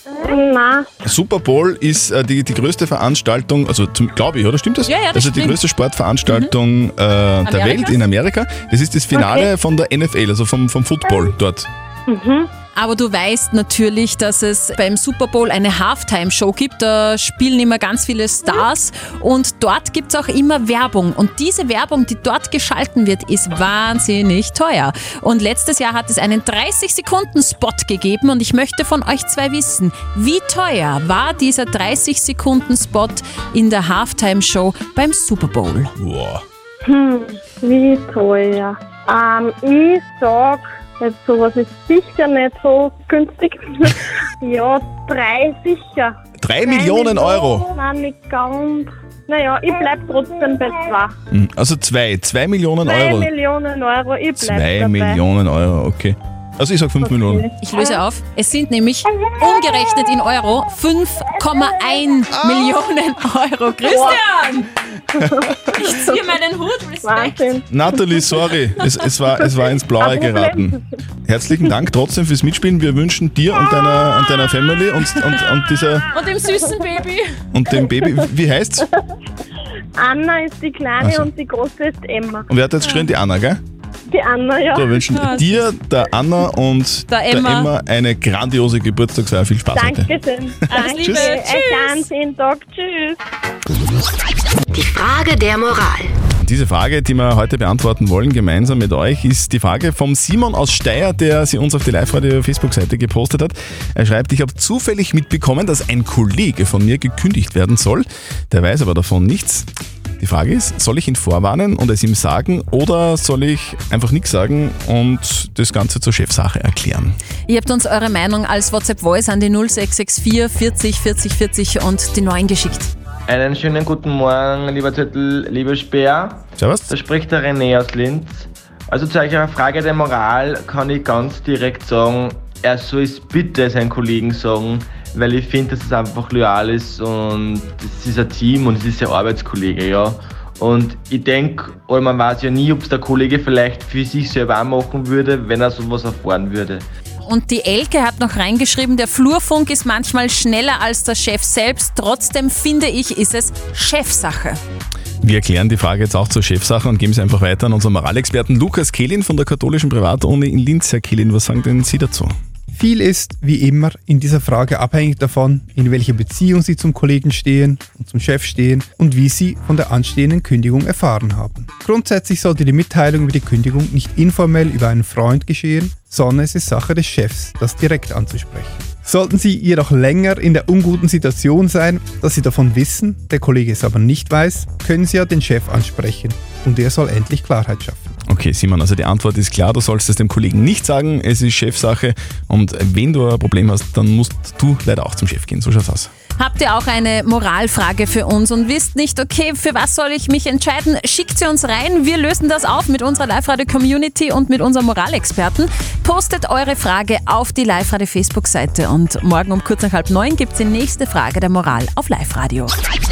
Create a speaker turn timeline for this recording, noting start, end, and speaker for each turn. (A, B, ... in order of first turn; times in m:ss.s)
0:00.1-0:00.9 A
0:01.0-0:11.7 B
0:04.9-0:05.6 C
0:07.4-0:08.1 C
0:09.1-0:09.5 A
0:12.1-0:12.5 A
0:12.8-0:35.9 C
0:36.0-0:36.4 B
0:36.8-0:51.1 A
0:46.4-0:47.7 B
0:51.3-0:53.3 B
0:52.8-0:55.2 A
0:54.4-0:57.4 B
0:57.0-0:58.0 A
0:57.6-1:04.7 C
0:59.1-0:59.7 A
1:01.6-1:02.2 A
1:02.3-1:02.8 B
1:03.9-1:04.2 A
1:05.2-1:05.5 A
1:05.8-1:07.4 C
1:07.0-1:08.0 A
1:07.7-1:16.1 B
1:10.0-1:10.8 A
1:16.1-1:17.2 C
1:17.5-1:18.8 B
1:20.0-1:22.5 A
1:21.0-1:21.3 B
1:22.5-1:23.6 B
1:22.8-1:23.1 C
1:24.1-1:25.3 A
1:24.7-1:30.1 B
1:25.1-1:25.7 C
1:27.1-1:27.7 C
1:29.7-1:33.2 A
1:30.7-1:31.4 B
1:30.7-1:32.0 C
1:36.4-1:49.7 B
1:50.2-1:57.2 B
1:57.5-2:02.9 C
2:03.3-2:26.8 D
2:06.6-2:06.9 B
2:27.2-2:34.6 C
2:35.2-2:42.3 B
2:42.8-3:08.0 E
3:08.3-3:16.1 B
3:16.4-3:32.7 C